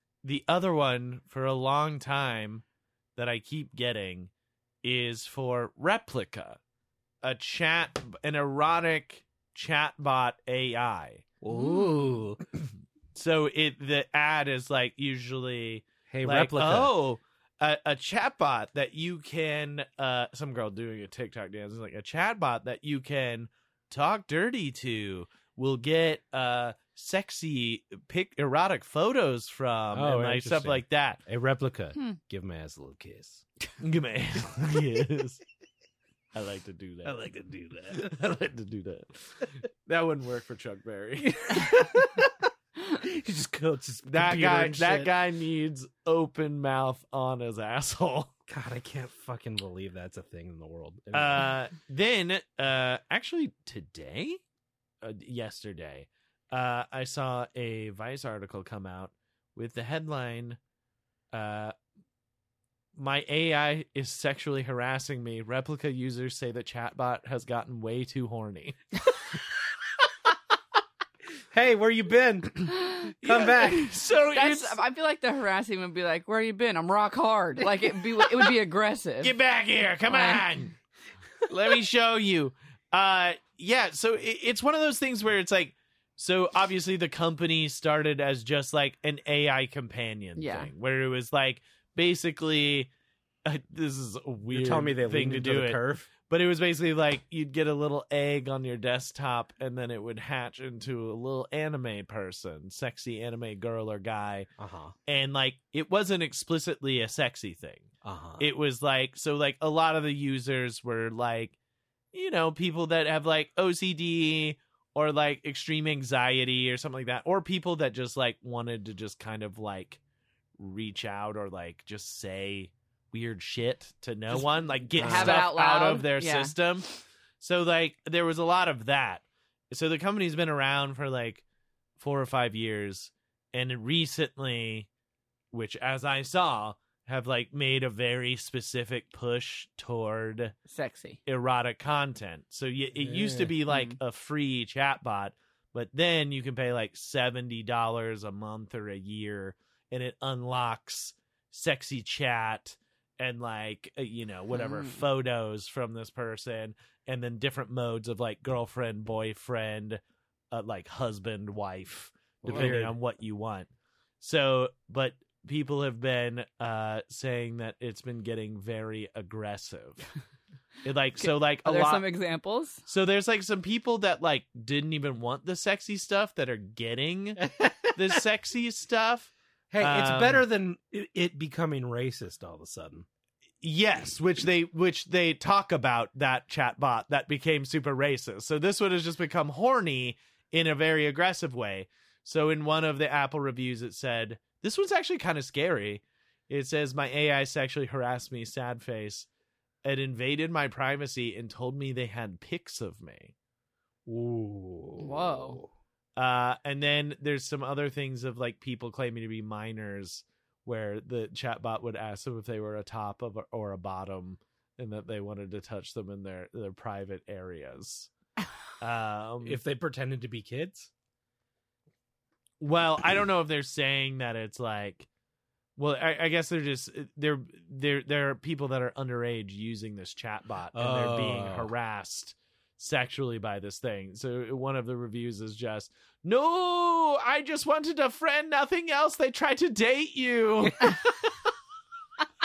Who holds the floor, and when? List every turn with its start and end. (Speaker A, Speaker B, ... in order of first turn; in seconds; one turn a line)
Speaker A: 0.2-2.6
Speaker A: 3.1-4.3
Speaker A: 4.8-6.6
Speaker A: 7.2-11.2
Speaker B: 11.4-12.6
Speaker A: 13.1-31.2
Speaker B: 16.1-16.9
Speaker B: 29.9-33.4
Speaker A: 33.8-35.4
Speaker A: 36.3-37.2
Speaker B: 37.0-38.1
Speaker A: 37.9-41.8
Speaker B: 41.2-42.3
Speaker B: 42.9-45.1
Speaker A: 44.0-48.3
Speaker B: 48.5-51.5
Speaker A: 51.1-54.4
Speaker A: 55.0-60.6
Speaker A: 61.3-61.7
Speaker A: 63.0-68.8
Speaker B: 71.5-73.9
Speaker A: 73.2-74.8
Speaker C: 74.3-79.3
Speaker A: 79.2-80.7
Speaker C: 80.1-80.4
Speaker A: 81.5-92.9
Speaker C: 90.4-90.7
Speaker A: 93.4-104.5
Speaker B: 94.5-96.1
Speaker B: 104.6-104.9
Speaker A: 105.0-111.5
Speaker B: 108.0-108.5
Speaker A: 112.1-120.0
Speaker A: 120.6-126.9
Speaker B: 124.3-125.5
Speaker C: 125.0-126.5
Speaker A: 127.4-131.4
Speaker A: 132.0-134.9
Speaker A: 135.5-140.5
Speaker C: 140.7-141.2
Speaker A: 141.2-160.0
Speaker B: 143.0-143.6
Speaker C: 143.7-143.9
Speaker C: 154.5-155.0
Speaker A: 160.5-163.7
Speaker B: 162.4-162.9
Speaker C: 162.5-162.8
Speaker A: 164.2-170.1
Speaker A: 170.8-172.1
Speaker C: 171.2-172.8
Speaker A: 172.8-180.4
Speaker B: 177.4-177.9
Speaker B: 179.7-183.1
Speaker A: 183.6-199.3
Speaker A: 199.8-203.3
Speaker B: 204.1-205.7
Speaker C: 205.0-205.6
Speaker A: 206.2-218.1
Speaker A: 218.8-219.6
Speaker B: 219.4-220.9
Speaker A: 222.6-225.1
Speaker A: 225.8-241.0
Speaker B: 230.7-231.7